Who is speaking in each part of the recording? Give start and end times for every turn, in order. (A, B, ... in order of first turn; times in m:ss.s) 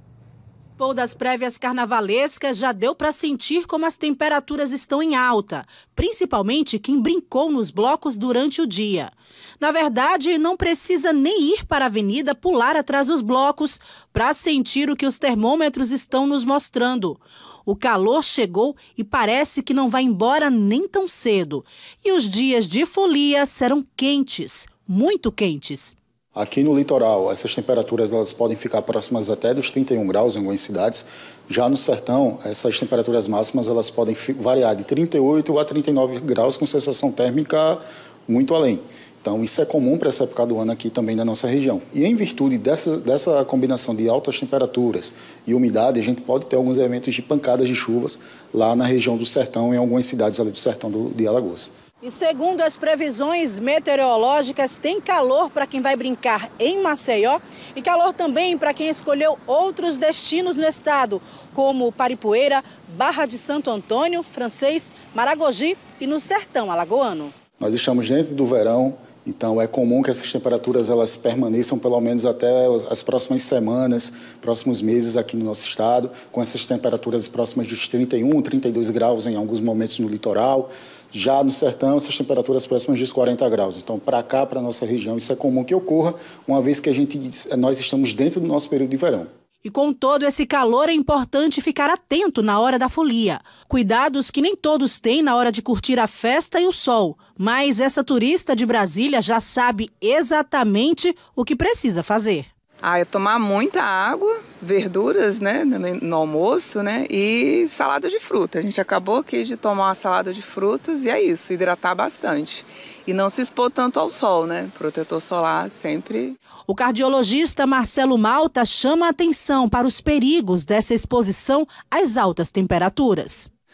0:00.8-0:25.9 A
0:26.4-0:51.7 B
0:52.0-1:07.4 A
1:07.6-1:29.3 B
1:29.6-1:42.5 A
1:42.8-1:56.4 C
1:56.7-2:03.5 A